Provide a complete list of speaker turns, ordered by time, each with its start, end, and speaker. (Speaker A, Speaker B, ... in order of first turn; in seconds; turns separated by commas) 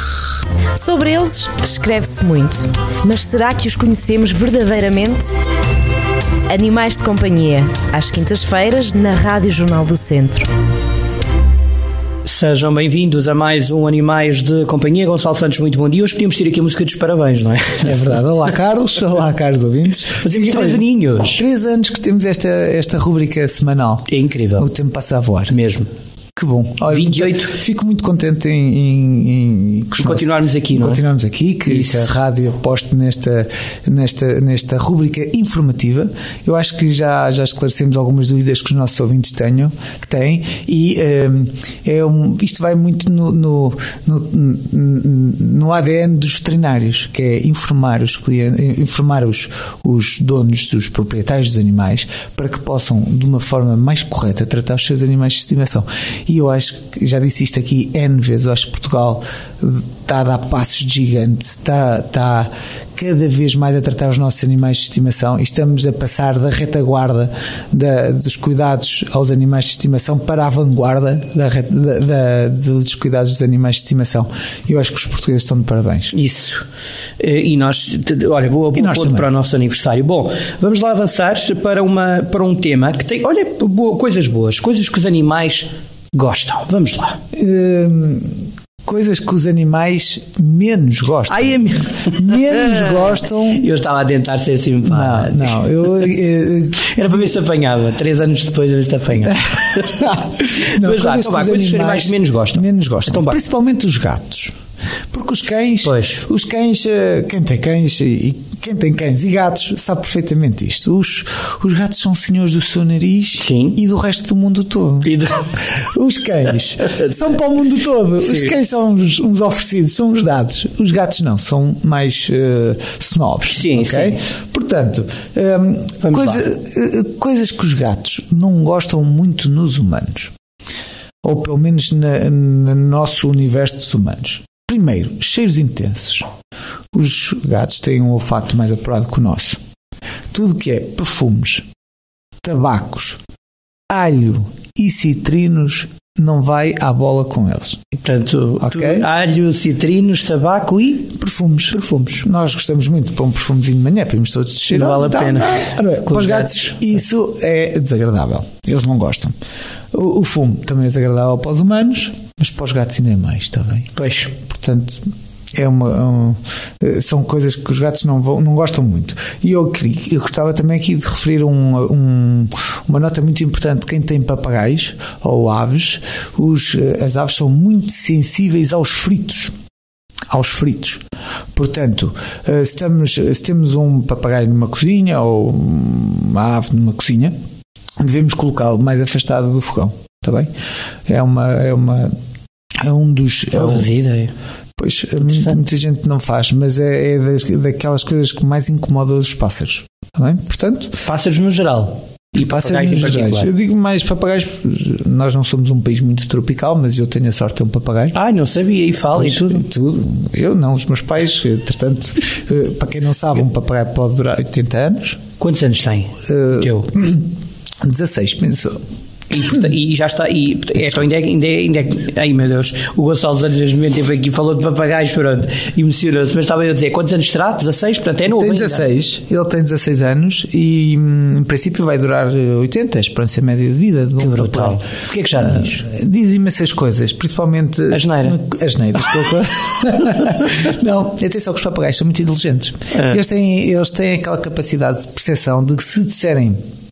Speaker A: 0.7-5.4, Speaker A: 6.5-10.5, Speaker B: 12.2-18.0, Speaker C: 17.8-25.5, Speaker B: 20.2-21.4, Speaker B: 24.1-24.7, Speaker B: 25.5-25.9, Speaker C: 26.3-76.1, Speaker B: 26.9-27.6, Speaker B: 30.0-31.0, Speaker B: 31.7-32.1, Speaker B: 76.1-76.6, Speaker B: 77.2-87.2, Speaker C: 78.7-79.3, Speaker C: 87.3-93.6, Speaker B: 91.3-95.7, Speaker C: 94.8-96.9, Speaker B: 96.8-103.4, Speaker C: 99.2-104.5, Speaker C: 105.1-115.1, Speaker B: 105.8-106.2, Speaker B: 113.4-113.8, Speaker B: 115.0-115.5, Speaker C: 115.7-130.3, Speaker B: 118.2-118.5, Speaker B: 123.5-124.2, Speaker B: 126.0-126.4, Speaker C: 131.2-136.3, Speaker C: 136.9-139.6, Speaker C: 140.3-141.7, Speaker C: 142.4-143.2, Speaker C: 143.9-147.8, Speaker B: 148.0-151.1, Speaker C: 148.6-149.1, Speaker C: 151.1-159.3, Speaker B: 151.7-152.2, Speaker B: 154.7-157.0, Speaker C: 159.9-163.9, Speaker B: 163.9-164.3, Speaker C: 164.4-165.0, Speaker C: 165.5-179.5, Speaker C: 180.3-181.0, Speaker C: 181.5-187.3, Speaker C: 188.0-190.5, Speaker C: 191.1-192.1, Speaker C: 192.8-193.9, Speaker B: 193.6-194.3, Speaker C: 194.8-201.0, Speaker B: 195.2-195.6, Speaker B: 201.0-203.5, Speaker C: 202.3-208.1, Speaker B: 208.1-209.6, Speaker C: 209.1-215.2, Speaker B: 215.4-216.9, Speaker C: 216.3-217.3, Speaker C: 217.8-218.8, Speaker B: 219.3-228.8, Speaker C: 228.3-234.8, Speaker B: 234.2-235.8, Speaker C: 235.4-246.6, Speaker B: 237.9-238.4, Speaker B: 242.9-243.2